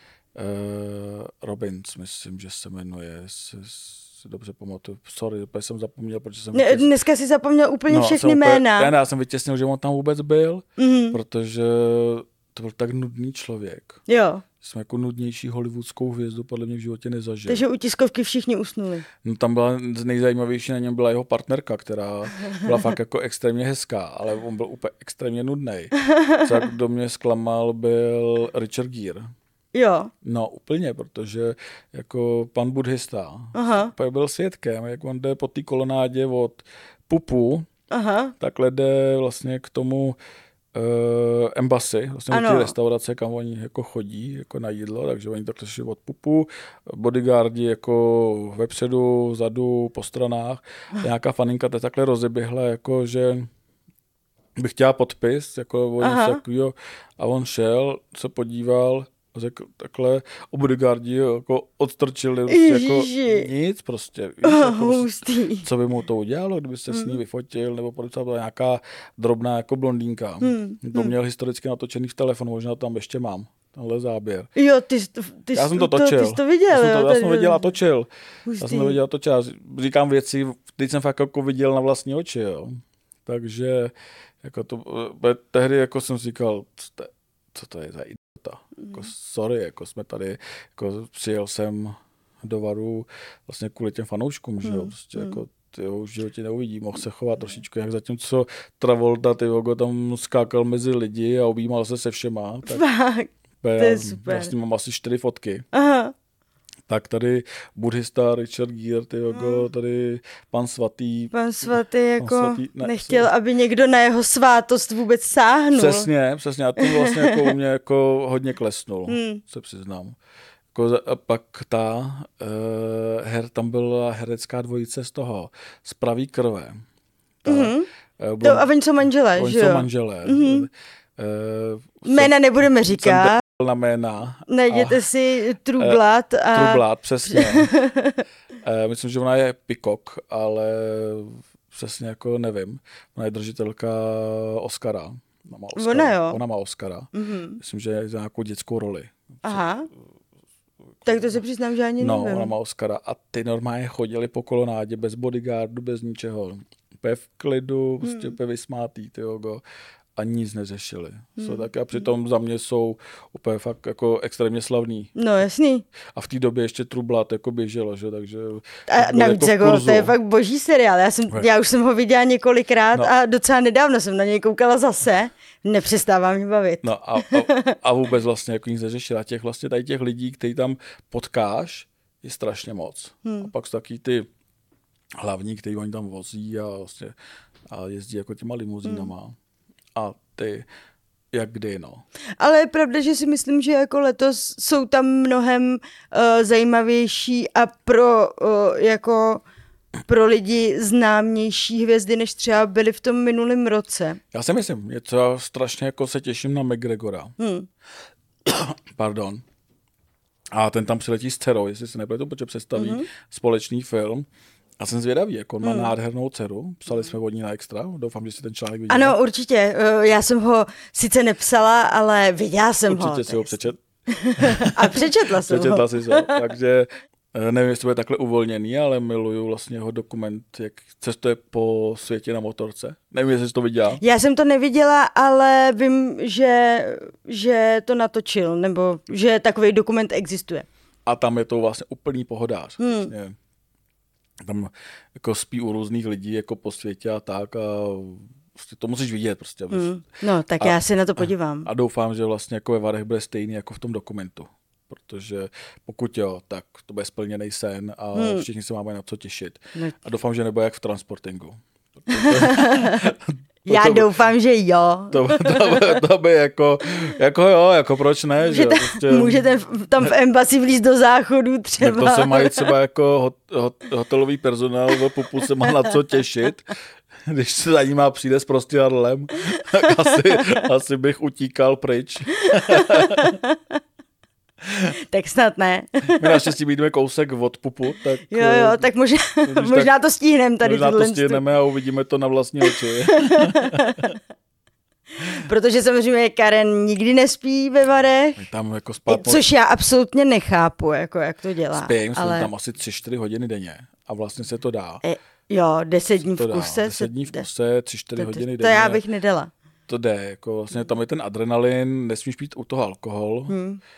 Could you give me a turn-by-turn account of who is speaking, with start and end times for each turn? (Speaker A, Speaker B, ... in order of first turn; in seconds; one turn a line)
Speaker A: 0.3-6.9
Speaker B: 6.5-8.9
Speaker A: 7.9-14.0
Speaker B: 10.8-11.2
Speaker B: 14.1-14.4
Speaker A: 14.6-17.6
Speaker B: 17.5-19.1
Speaker A: 19.2-29.3
Speaker B: 26.0-26.4
Speaker B: 29.7-30.1
Speaker A: 30.2-37.7
Speaker B: 33.5-33.9
Speaker B: 37.9-38.3
Speaker A: 38.4-40.2
Speaker A: 40.7-53.5
Speaker B: 42.3-42.7
Speaker A: 54.5-74.5
Speaker B: 56.0-56.4
Speaker B: 62.5-63.5
Speaker B: 64.4-65.7
Speaker B: 66.9-67.2
Speaker B: 70.4-71.1
Speaker B: 74.5-77.7
Speaker A: 75.5-78.1
Speaker B: 78.5-79.0
Speaker A: 78.6-102.8
Speaker B: 94.6-95.4
Speaker B: 102.7-104.5
Speaker A: 103.6-105.7
Speaker B: 105.7-106.1
Speaker A: 106.9-113.3
Speaker B: 109.3-109.7
Speaker B: 111.3-116.1
Speaker A: 115.7-120.2
Speaker B: 116.8-117.5
Speaker B: 119.1-119.4
Speaker A: 120.7-126.8
Speaker A: 127.4-128.7
Speaker B: 127.5-127.9
Speaker B: 128.4-130.7
Speaker A: 129.3-132.3
Speaker B: 132.0-133.4
Speaker A: 132.9-135.1
Speaker B: 134.5-138.2
Speaker A: 135.8-137.7
Speaker A: 138.6-149.6
Speaker B: 145.7-146.4
Speaker B: 147.1-147.6
Speaker B: 149.4-149.9
Speaker B: 151.0-152.5
Speaker A: 152.0-159.6
Speaker B: 158.0-158.3
Speaker A: 160.2-165.1
Speaker B: 161.4-161.7
Speaker B: 165.2-165.8
Speaker A: 166.1-170.1
Speaker B: 168.9-177.8
Speaker A: 176.8-184.3
Speaker B: 183.2-183.5
Speaker A: 185.2-187.1
Speaker A: 187.7-189.3
Speaker B: 188.8-189.1
Speaker A: 189.9-190.7
Speaker A: 191.3-192.0
Speaker B: 192.4-199.4
Speaker B: 200.1-204.2
Speaker A: 204.3-207.3
Speaker B: 207.4-207.7
Speaker A: 208.4-209.4
Speaker A: 210.5-214.3
Speaker B: 212.7-213.1
Speaker A: 214.8-219.2
Speaker B: 215.6-215.9
Speaker B: 218.9-226.4
Speaker A: 222.9-223.8
Speaker A: 224.4-234.0
Speaker B: 234.0-240.7
Speaker A: 241.1-243.3
Speaker B: 242.8-243.1
Speaker A: 244.4-249.9
Speaker B: 249.7-251.7
Speaker A: 250.6-264.2
Speaker B: 258.1-258.4
Speaker B: 262.1-263.1
Speaker B: 263.6-266.0
Speaker A: 265.1-269.4
Speaker B: 268.4-272.7
Speaker A: 271.8-276.6
Speaker B: 275.6-275.9
Speaker A: 277.2-283.4
Speaker B: 282.4-283.6
Speaker B: 285.1-286.5
Speaker A: 286.2-288.9
Speaker B: 288.3-291.4
Speaker A: 289.4-289.9
Speaker A: 290.6-294.1
Speaker B: 293.1-294.2
Speaker B: 295.3-298.4
Speaker A: 298.4-299.4
Speaker B: 299.1-302.5
Speaker A: 301.7-305.0
Speaker B: 305.0-307.4
Speaker A: 306.2-309.0
Speaker B: 308.2-309.5
Speaker A: 309.9-313.5
Speaker B: 313.5-313.8